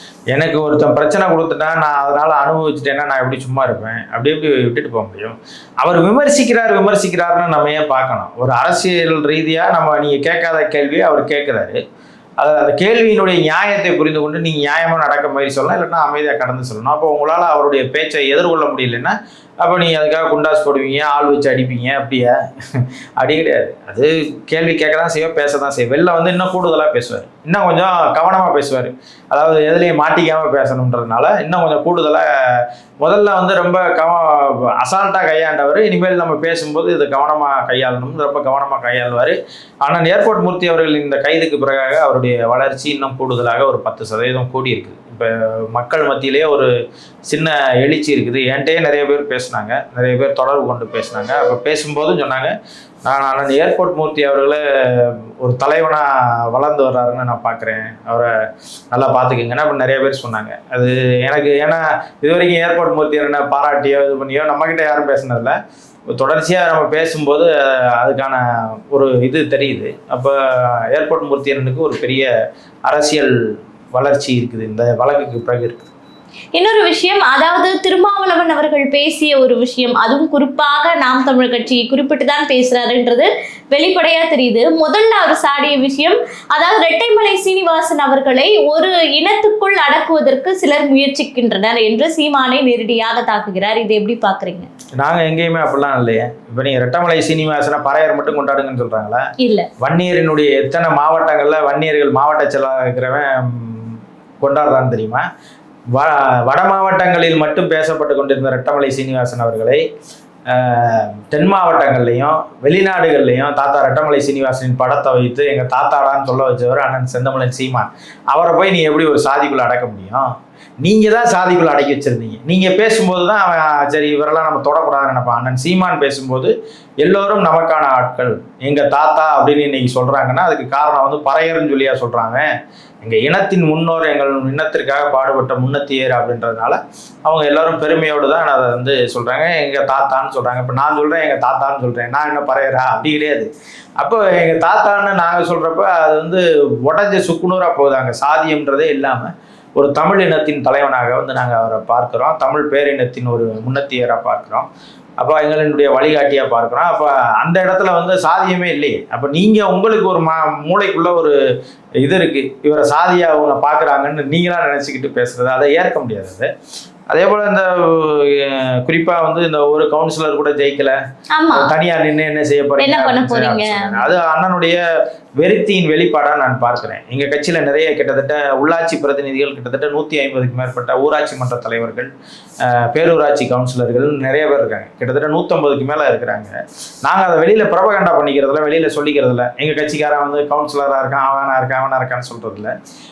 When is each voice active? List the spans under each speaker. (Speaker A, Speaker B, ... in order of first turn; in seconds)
Speaker A: 0.3-11.8, 12.4-46.7, 47.3-52.5, 53.0-58.3, 58.9-65.5, 66.1-70.3, 70.9-72.3, 72.8-73.3, 73.9-75.9, 95.0-99.2, 99.8-105.2, 105.9-109.8, 110.5-120.3, 120.8-132.5, 133.0-143.5, 144.0-154.7, 155.2-161.3, 162.0-166.5, 167.1-171.0, 171.5-174.8, 175.4-182.1, 182.6-192.7
Speaker B: 76.5-94.7, 99.4-99.7, 171.3-171.7, 172.8-174.1